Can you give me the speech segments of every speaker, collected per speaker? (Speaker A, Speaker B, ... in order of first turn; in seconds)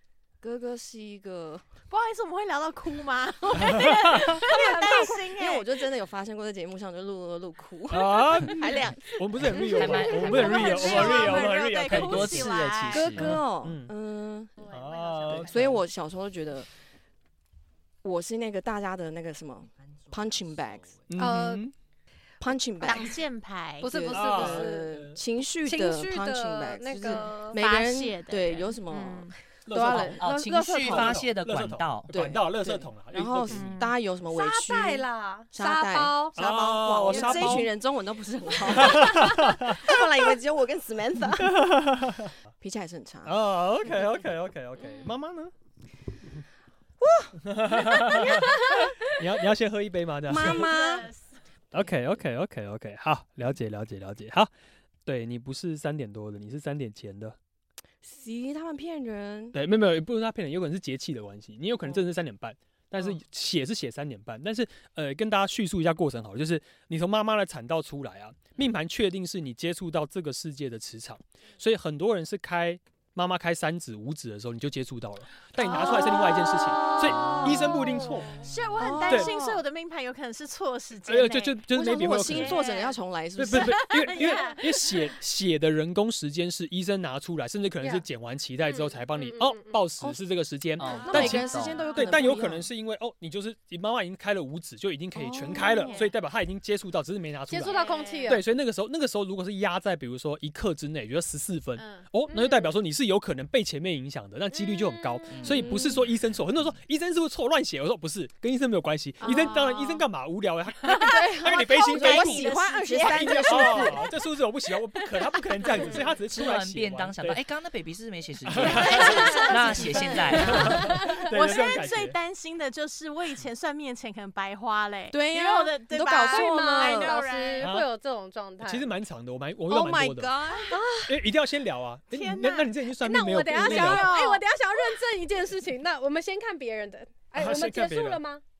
Speaker A: 0.4-1.6, 4.4-9.2, 10.4-11.5, 12.9-14.6, 15.3-16.7, 18.0-20.9, 22.4-23.2, 23.8-31.2, 32.1-41.7, 42.6-43.3, 47.0-48.4, 50.2-51.1, 58.0-59.5, 75.6-78.2, 78.8-79.6, 81.7-84.3, 91.0-92.7, 95.1-96.0, 109.2-109.6, 110.9-114.0, 119.0-120.8, 125.1-127.2, 129.7-130.8
Speaker B: 1.9-5.7, 9.5-13.1, 14.6-15.7, 22.8-23.9, 27.0-29.3, 33.5-33.9, 50.3-51.3, 75.6-85.1, 91.6-92.3, 95.7-96.1, 97.5-98.4, 101.8-102.1, 109.2-110.0, 110.8-114.1, 115.2-116.2, 118.5-127.7, 132.1-132.7, 133.4-134.4
Speaker C: 3.7-4.4, 7.9-12.6, 13.1-13.9, 14.7-15.8, 21.1-21.7, 24.1-25.2, 29.7-33.7, 36.3-37.7, 38.6-39.9, 41.3-42.4, 43.2-45.5, 47.4-50.7, 51.7-54.5, 55.0-57.4, 59.5-78.4, 79.1-79.3, 81.1-82.6, 83.4-97.7, 98.2-117.4, 118.4-119.5, 120.4-122.2, 127.6-127.9, 128.6-130.3, 131.1-134.2, 137.3-138.2
Speaker D: 9.7-13.4, 20.0-20.5, 29.9-32.4, 78.3-78.8, 90.8-91.9, 105.3-106.1, 116.3-120.9
Speaker E: 10.3-11.2, 14.7-15.3, 21.2-21.6, 23.8-24.8, 25.6-27.6, 34.3-36.4, 37.1-37.5, 44.8-45.1, 88.8-89.8, 97.5-98.4, 102.3-102.7, 104.5-106.0, 115.7-116.0, 118.8-119.5, 120.5-121.2, 126.3-128.8, 130.7-131.3, 133.0-138.4